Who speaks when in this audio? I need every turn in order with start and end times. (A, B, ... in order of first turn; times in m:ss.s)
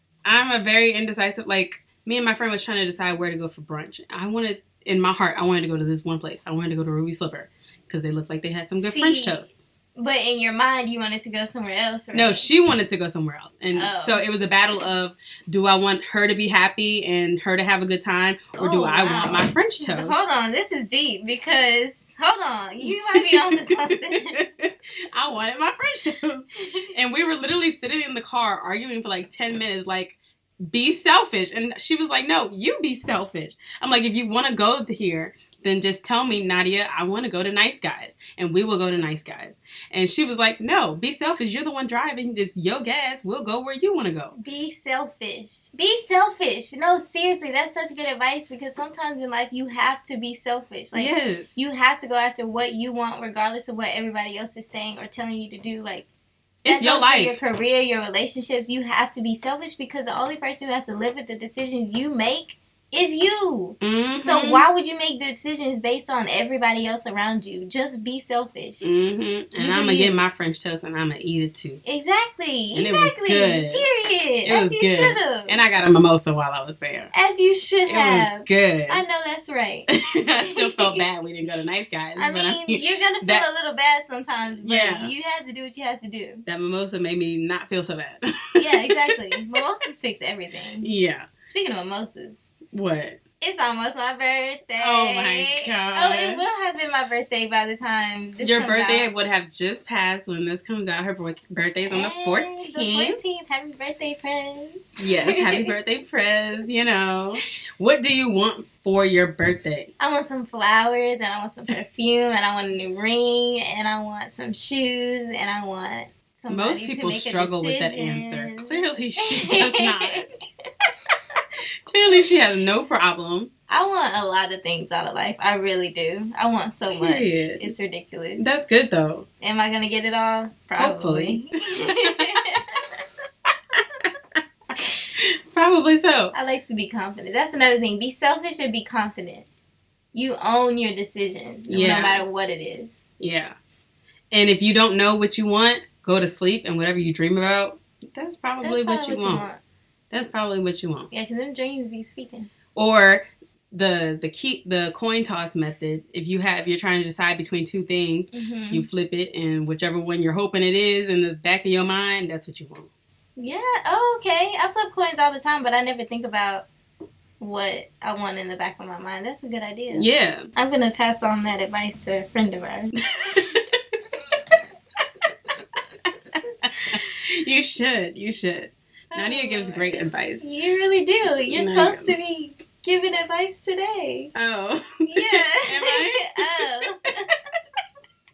0:00.2-0:09.6 A
0:08.8-0:12.5 B
0:12.1-0:20.2 A
0:13.7-0:14.2 B
0:18.6-0:24.4 B
0:22.8-0:44.4 A
0:44.3-0:56.0 B
0:50.9-0:51.6 A
0:56.6-0:57.4 A
0:56.6-1:08.9 B
1:03.8-1:04.6 A
1:08.8-1:11.8 A
1:09.6-1:10.2 B
1:11.8-1:15.6 B
1:12.7-1:13.8 A
1:14.4-1:17.1 A
1:17.1-1:21.0 B
1:17.9-1:19.0 A
1:19.9-1:23.4 A
1:22.2-1:26.4 B
1:24.6-1:25.1 A
1:26.4-1:29.1 A
1:28.6-1:32.4 B
1:30.8-1:31.2 A
1:32.7-1:33.2 A
1:33.4-1:39.1 B
1:34.8-1:36.4 A
1:38.4-1:43.2 A
1:41.9-1:45.7 B
1:45.0-1:49.9 A
1:50.0-2:00.2 B
1:56.5-2:00.3 A
2:01.9-2:03.5 A
2:03.7-2:08.5 B
2:06.9-2:07.7 A
2:08.4-2:09.2 A
2:09.4-2:12.8 B
2:10.8-2:12.3 A
2:13.8-2:14.0 A
2:15.2-2:16.3 A
2:16.3-2:19.5 B
2:20.1-2:23.0 B
2:21.7-2:22.2 A
2:23.2-2:23.5 A
2:24.3-2:29.5 A
2:28.6-2:29.6 B
2:30.1-2:31.1 A
2:31.1-2:32.5 B
2:32.8-2:42.9 A
2:38.3-2:38.9 B
2:43.4-2:46.6 B
2:47.4-2:53.6 B
2:49.9-2:50.5 A
2:53.1-2:53.6 A
2:56.7-2:57.0 B
2:56.9-3:00.5 A
2:59.1-3:04.3 B
3:01.5-3:02.1 A
3:04.3-3:06.8 A
3:05.0-3:07.3 B